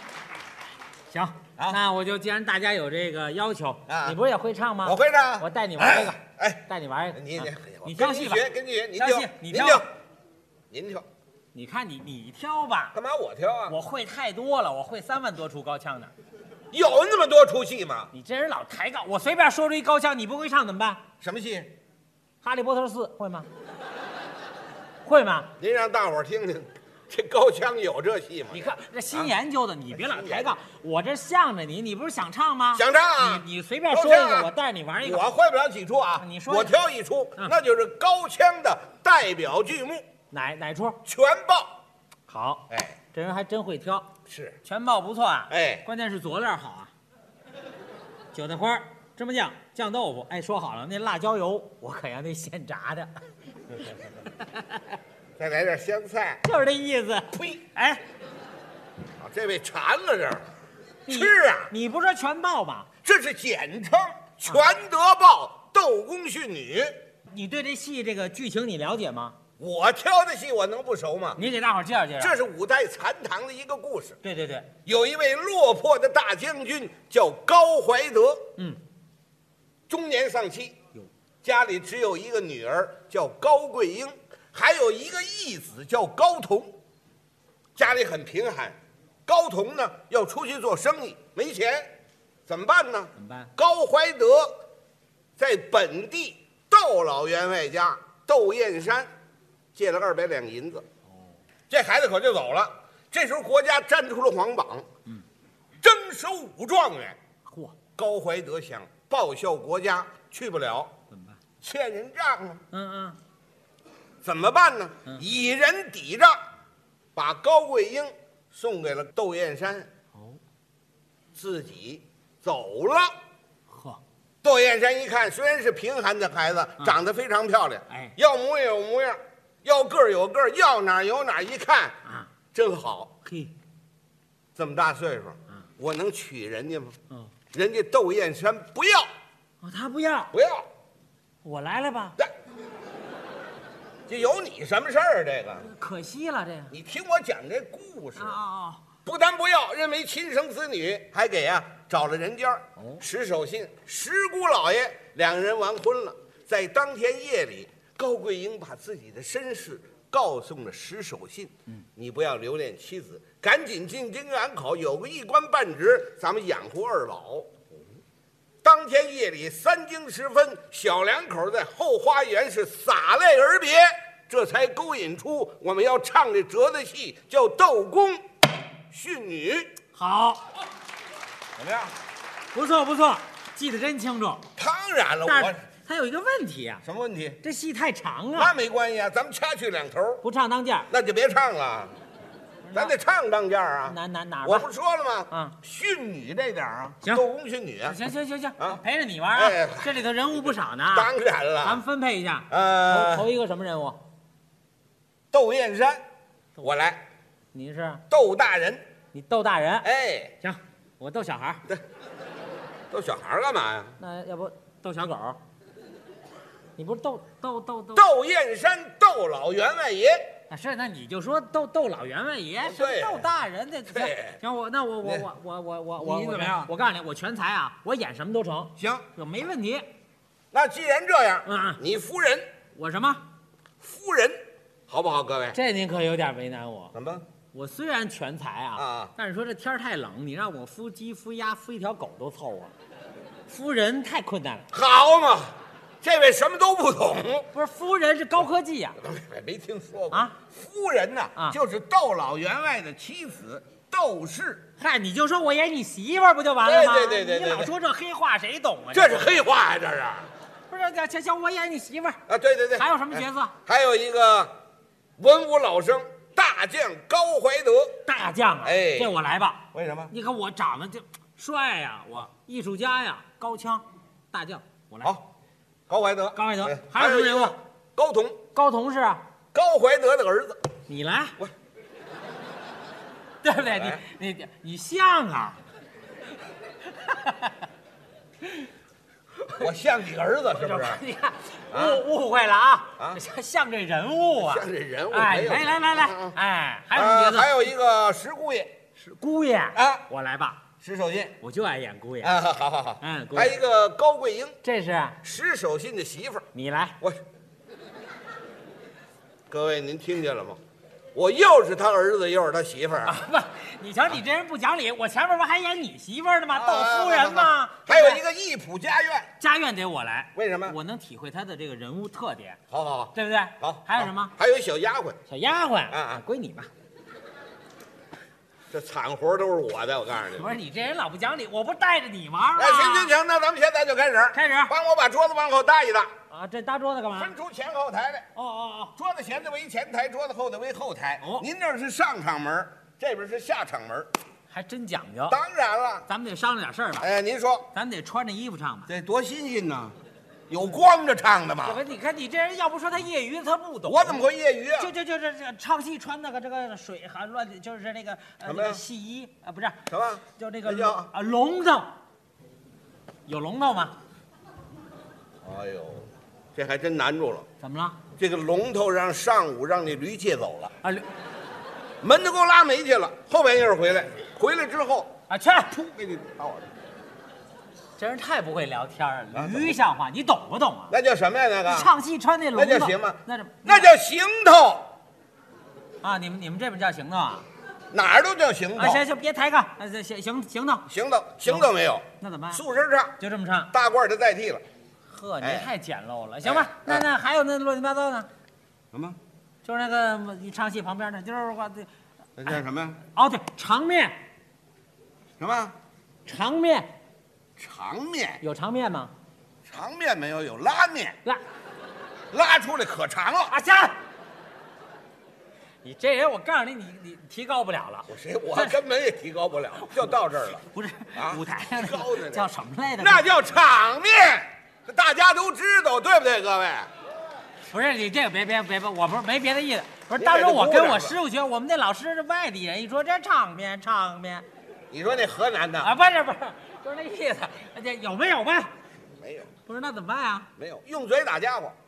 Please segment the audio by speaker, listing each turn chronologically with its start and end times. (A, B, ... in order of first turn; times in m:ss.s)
0:01.1-0:08.4 A
0:03.9-0:04.2 B
0:04.8-0:09.8 B
0:09.0-0:09.8 A
0:10.7-0:11.0 B
0:11.5-0:13.0 A
0:12.9-0:13.8 B
0:13.7-0:16.1 A
0:16.7-0:18.1 B
0:18.1-0:21.0 A
0:21.2-0:21.7 B
0:22.4-0:23.5 A
0:25.0-0:25.5 A
0:25.6-0:29.3 B
0:28.5-0:35.3 A
0:29.9-0:30.5 B
0:32.7-0:34.5 B
0:35.0-0:40.0 B
0:36.2-0:36.8 A
0:40.3-0:41.0 A
0:41.0-0:41.7 B
0:42.3-0:44.1 A
0:42.7-0:43.0 B
0:44.3-0:44.6 B
0:44.6-0:46.9 A
0:45.5-0:45.8 B
0:48.3-0:53.1 A
0:53.8-0:54.8 A
0:55.4-0:56.4 B
0:56.4-0:58.0 A
0:57.3-0:57.6 B
0:59.2-1:00.4 B
1:01.0-1:01.7 B
1:01.1-1:02.9 A
1:03.0-1:07.0 B
1:07.3-1:09.4 A
1:09.6-1:11.4 B
1:11.4-1:12.3 A
1:12.2-1:14.2 B
1:14.2-1:14.7 A
1:14.8-1:18.5 B
1:19.9-1:20.8 B
1:21.4-1:26.7 B
1:27.8-1:31.9 B
1:32.5-1:34.5 B
1:33.2-1:33.5 A
1:35.4-1:39.1 B
1:39.7-1:40.8 B
1:41.7-1:44.8 B
1:45.8-1:47.2 B
1:47.4-1:47.8 A
1:48.0-1:50.9 B
1:51.1-1:51.4 A
1:51.6-1:52.6 B
1:52.7-1:53.2 A
1:54.2-1:56.4 B
1:57.2-1:59.9 B
2:00.1-2:00.4 A
2:01.3-2:03.1 B
2:03.7-2:04.0 A
2:04.4-2:12.0 B
2:07.9-2:08.1 A
2:12.0-2:12.3 A
2:12.5-2:13.1 B
2:13.2-2:13.5 A
2:14.6-2:17.0 B
2:17.5-2:19.1 B
2:19.6-2:20.3 A
2:20.3-2:20.6 B
2:21.4-2:22.2 A
2:24.1-2:25.7 B
2:25.6-2:26.7 A
2:26.7-2:28.4 B
2:28.2-2:28.8 A
2:29.0-2:47.5 B
2:48.6-2:58.2 B
2:58.9-2:59.7 B
2:59.9-3:00.4 A
3:01.6-3:01.9 B
3:02.5-3:04.4 A
3:04.6-3:05.6 B
3:05.2-3:06.8 A
3:06.8-3:07.4 B
3:07.4-3:08.5 A
3:08.4-3:10.2 B
3:10.2-3:10.9 A
3:10.9-3:11.9 B
3:12.6-3:12.9 A
3:12.7-3:18.0 B
3:13.9-3:14.7 A
3:17.8-3:21.1 A
3:19.3-3:21.8 B
3:21.6-3:24.0 A
3:22.5-3:23.3 B
3:25.3-3:26.0 B
3:26.6-3:27.0 B
3:27.5-3:28.0 A
3:28.1-3:28.8 B
3:29.1-3:29.9 A
3:29.8-3:30.3 B
3:30.4-3:31.6 A
3:32.9-3:34.0 B
3:34.0-3:35.4 A
3:36.8-3:38.0 A
3:37.9-3:40.3 B
3:40.5-3:49.8 A
3:42.6-3:43.3 B
3:43.9-3:44.4 B
3:45.0-3:45.3 B
3:46.0-3:46.7 B
3:48.8-3:49.0 B
3:50.5-3:52.5 B
3:51.4-3:51.8 A
3:52.7-3:53.2 A
3:53.8-3:54.4 B
3:54.9-3:55.6 B
3:55.5-3:56.9 A
3:56.9-3:57.2 B
3:57.5-4:02.7 A
3:58.8-3:59.1 B
4:03.5-4:04.7 A
4:04.7-4:07.5 B
4:07.5-4:09.0 A
4:09.0-4:14.6 B
4:14.8-4:19.4 A
4:16.6-4:17.7 B
4:18.9-4:20.3 B
4:20.7-4:22.2 A
4:22.3-4:24.5 B
4:22.8-4:23.5 A
4:25.2-4:28.0 B
4:28.0-4:35.1 A
4:28.6-4:29.1 B
4:29.7-4:30.1 B
4:35.9-4:38.4 B
4:36.4-4:37.6 A
4:38.5-4:39.2 A
4:39.5-4:40.6 B
4:40.9-4:41.4 A
4:43.4-4:45.6 A
4:43.6-4:44.0 B
4:46.9-4:47.6 A
4:49.5-4:51.0 B
4:50.5-4:57.6 A
4:51.7-4:52.0 B
4:54.4-4:56.4 B
4:56.9-4:58.7 B
4:59.0-5:00.6 A
4:59.7-5:00.0 B
5:00.8-5:01.4 B
5:01.4-5:02.4 A
5:02.2-5:04.6 B
5:03.0-5:03.6 A
5:04.6-5:05.2 A
5:05.2-5:06.4 B
5:06.5-5:07.0 A
5:09.5-5:10.6 B
5:11.1-5:13.2 B
5:13.0-5:18.2 A
5:16.5-5:19.3 B
5:19.4-5:22.6 A
5:20.3-5:20.8 B
5:22.7-5:25.2 B
5:23.1-5:24.3 A
5:25.3-5:26.7 A
5:25.9-5:26.2 B
5:28.7-5:30.5 B
5:30.3-5:33.1 A
5:32.6-5:36.1 B
5:34.3-5:34.7 A
5:36.3-5:37.3 A
5:37.1-5:38.3 B
5:38.4-5:38.9 A
5:39.0-5:44.1 B
5:41.2-5:41.4 A
5:44.5-5:45.4 A
5:45.3-5:46.1 B
5:46.1-5:47.1 A
5:47.0-5:47.7 B
5:47.7-5:48.9 A
5:48.9-5:49.9 B
5:50.5-5:51.8 B
5:51.6-5:54.2 A
5:53.9-5:54.9 B
5:54.8-5:59.8 A
5:58.4-5:58.8 B
5:59.9-6:01.1 B
6:00.4-6:01.9 A
6:03.3-6:03.9 A
6:05.4-6:07.4 B
6:07.6-6:08.0 A
6:08.2-6:10.7 B
6:12.0-6:15.1 B
6:15.3-6:15.7 A
6:15.7-6:16.7 B
6:18.0-6:20.9 A
6:19.3-6:19.8 B
6:20.9-6:21.9 B
6:21.7-6:23.9 A
6:22.5-6:24.9 B
6:26.0-6:27.4 A
6:27.9-6:29.0 B
6:28.8-6:30.9 A
6:30.9-6:33.2 B
6:32.2-6:32.6 A
6:33.2-6:33.7 A
6:33.7-6:34.6 B
6:35.1-6:38.3 A
6:35.4-6:35.7 B
6:36.4-6:37.1 B
6:38.9-6:39.2 B
6:39.6-6:41.9 A
6:42.4-6:43.0 B
6:43.1-6:44.2 A
6:45.4-6:45.7 B
6:46.2-6:46.9 A
6:47.6-6:48.4 B
6:48.4-6:49.1 A
6:49.6-6:51.2 B
6:52.3-6:53.5 B
6:53.5-6:54.0 A
6:55.8-6:58.8 A
6:58.1-7:06.9 B
7:00.6-7:03.3 A
7:07.7-7:14.4 A
7:10.1-7:11.2 B
7:14.9-7:15.9 B
7:15.8-7:18.7 A
7:19.2-7:19.5 B
7:19.6-7:20.5 A
7:20.6-7:21.8 B